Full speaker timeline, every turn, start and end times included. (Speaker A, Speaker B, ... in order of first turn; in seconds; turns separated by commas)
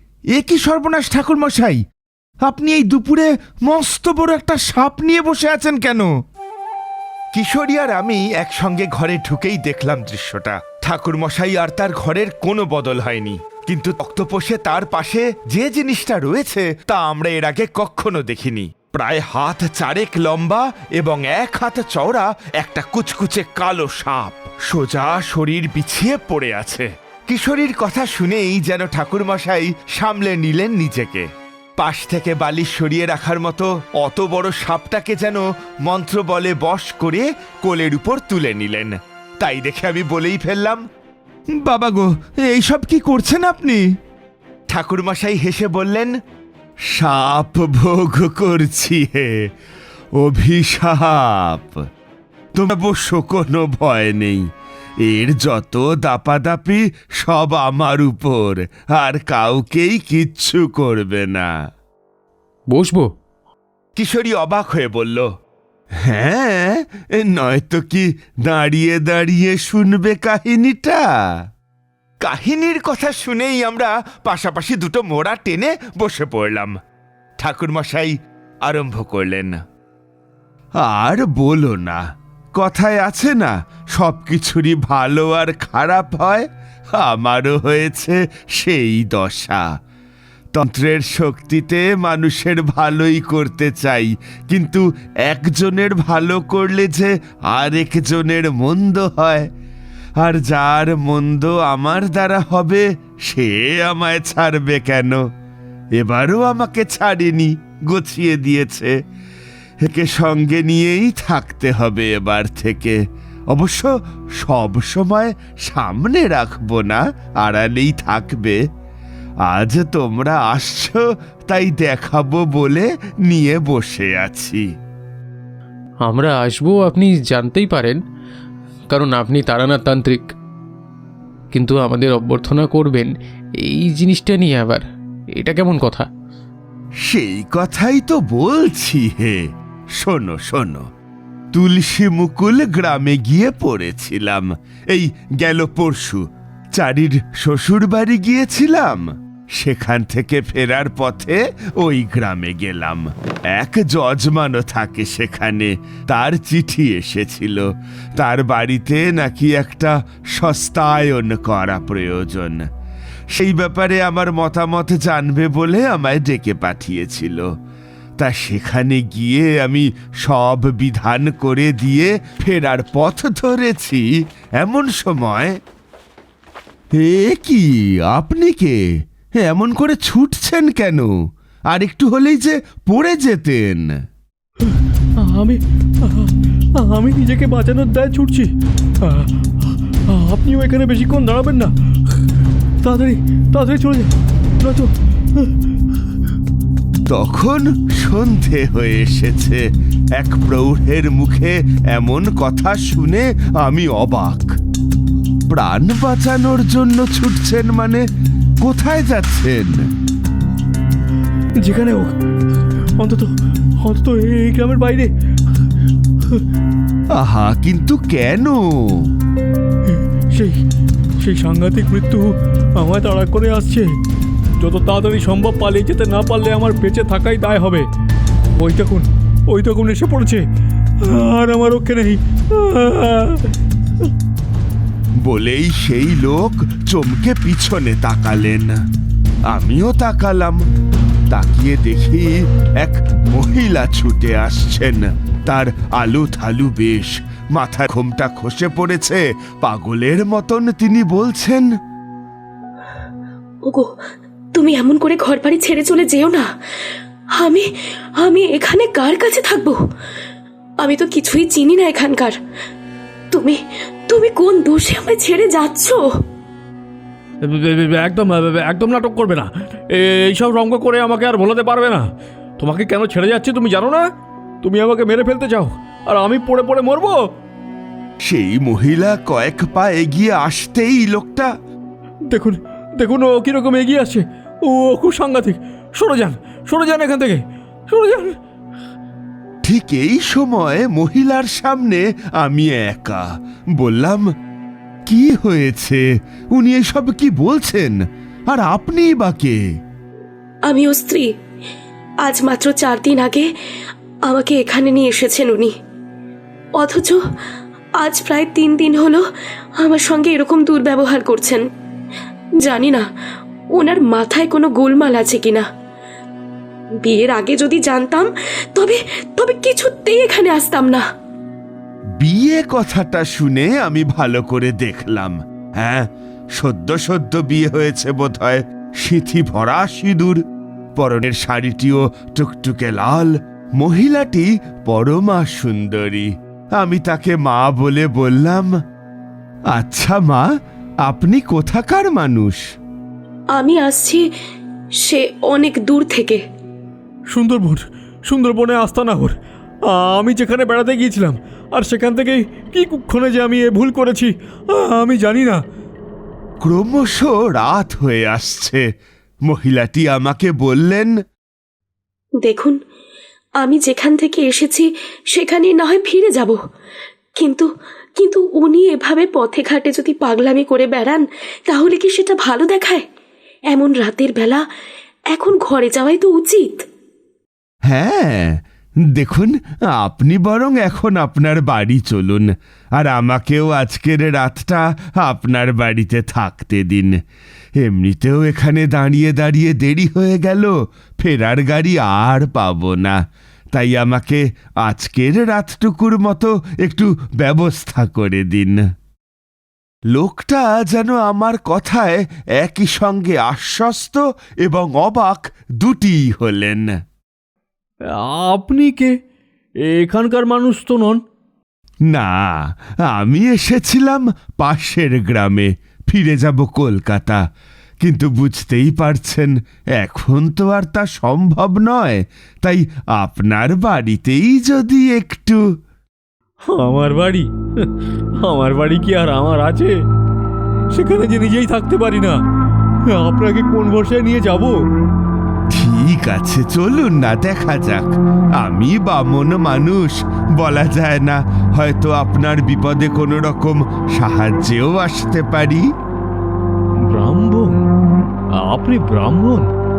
Speaker A: 0.3-1.8, Speaker A: 2.5-6.1, Speaker A: 7.3-40.8, Speaker A: 41.6-43.8, Speaker A: 44.7-46.1, Speaker A: 46.9-49.3, Speaker A: 50.2-51.8, Speaker A: 52.5-54.4, Speaker A: 55.0-61.5, Speaker B: 62.7-63.1, Speaker A: 64.0-65.3, Speaker A: 66.0-71.0, Speaker A: 72.2-76.7, Speaker A: 77.4-78.1, Speaker A: 78.7-79.6, Speaker A: 80.8-82.0, Speaker A: 82.6-89.6, Speaker A: 90.5-99.5, Speaker A: 100.2-105.2, Speaker A: 106.0-108.9, Speaker A: 109.8-113.0, Speaker A: 113.5-118.6, Speaker A: 119.5-124.6, Speaker B: 126.0-128.0, Speaker B: 128.9-130.3, Speaker B: 131.5-136.1, Speaker A: 137.0-139.4, Speaker A: 140.0-140.8, Speaker A: 141.5-146.2, Speaker A: 146.8-162.6, Speaker A: 163.3-167.5, Speaker A: 168.2-174.0, Speaker A: 174.6-175.5, Speaker A: 177.0-178.8, Speaker A: 179.4-181.1, Speaker A: 181.7-183.9, Speaker C: 184.7-188.5, Speaker C: 189.0-189.3, Speaker C: 190.1-191.7, Speaker C: 192.8-195.5, Speaker A: 197.1-199.6, Speaker A: 200.2-204.6, Speaker A: 205.5-208.0, Speaker A: 208.6-209.8, Speaker C: 211.6-212.1, Speaker C: 212.9-213.3, Speaker C: 213.8-215.1, Speaker A: 217.1-219.1, Speaker C: 220.3-220.6, Speaker C: 221.2-223.9, Speaker C: 224.6-227.8, Speaker C: 228.6-230.4, Speaker C: 231.0-233.4, Speaker A: 235.2-238.8, Speaker A: 239.5-240.6, Speaker A: 241.3-251.7, Speaker D: 253.6-254.0, Speaker D: 254.5-256.5, Speaker D: 257.4-259.8, Speaker D: 260.8-262.4, Speaker D: 263.3-266.1, Speaker C: 267.4-274.1, Speaker C: 274.6-277.2, Speaker A: 278.2-281.5, Speaker C: 282.3-288.4, Speaker A: 289.6-293.2, Speaker A: 293.8-294.3, Speaker A: 295.1-299.6, Speaker D: 300.7-301.3, Speaker D: 302.2-303.5, Speaker D: 304.2-305.7, Speaker D: 306.8-307.2, Speaker D: 308.0-309.3, Speaker D: 309.8-311.6, Speaker D: 312.6-313.1, Speaker D: 313.7-315.7, Speaker D: 317.0-321.1, Speaker A: 322.2-330.4, Speaker A: 331.0-338.7, Speaker A: 339.7-340.5, Speaker A: 341.1-342.6, Speaker D: 343.5-344.3, Speaker D: 345.0-346.4, Speaker C: 347.3-349.3, Speaker C: 349.9-355.6, Speaker A: 356.6-358.8, Speaker A: 359.5-361.1, Speaker D: 362.4-362.8, Speaker D: 363.6-366.6, Speaker D: 367.4-373.1, Speaker D: 373.7-374.6, Speaker D: 375.3-376.9, Speaker A: 377.9-378.6, Speaker A: 379.1-387.2, Speaker A: 387.8-393.2, Speaker A: 393.7-398.8, Speaker A: 400.1-406.9, Speaker C: 408.1-409.2, Speaker C: 409.9-411.2, Speaker A: 412.1-417.4, Speaker A: 418.0-425.6, Speaker C: 426.7-427.9, Speaker C: 428.4-429.9, Speaker C: 430.9-432.4, Speaker C: 433.1-434.8, Speaker A: 435.7-445.9, Speaker C: 447.1-447.8, Speaker C: 448.6-449.7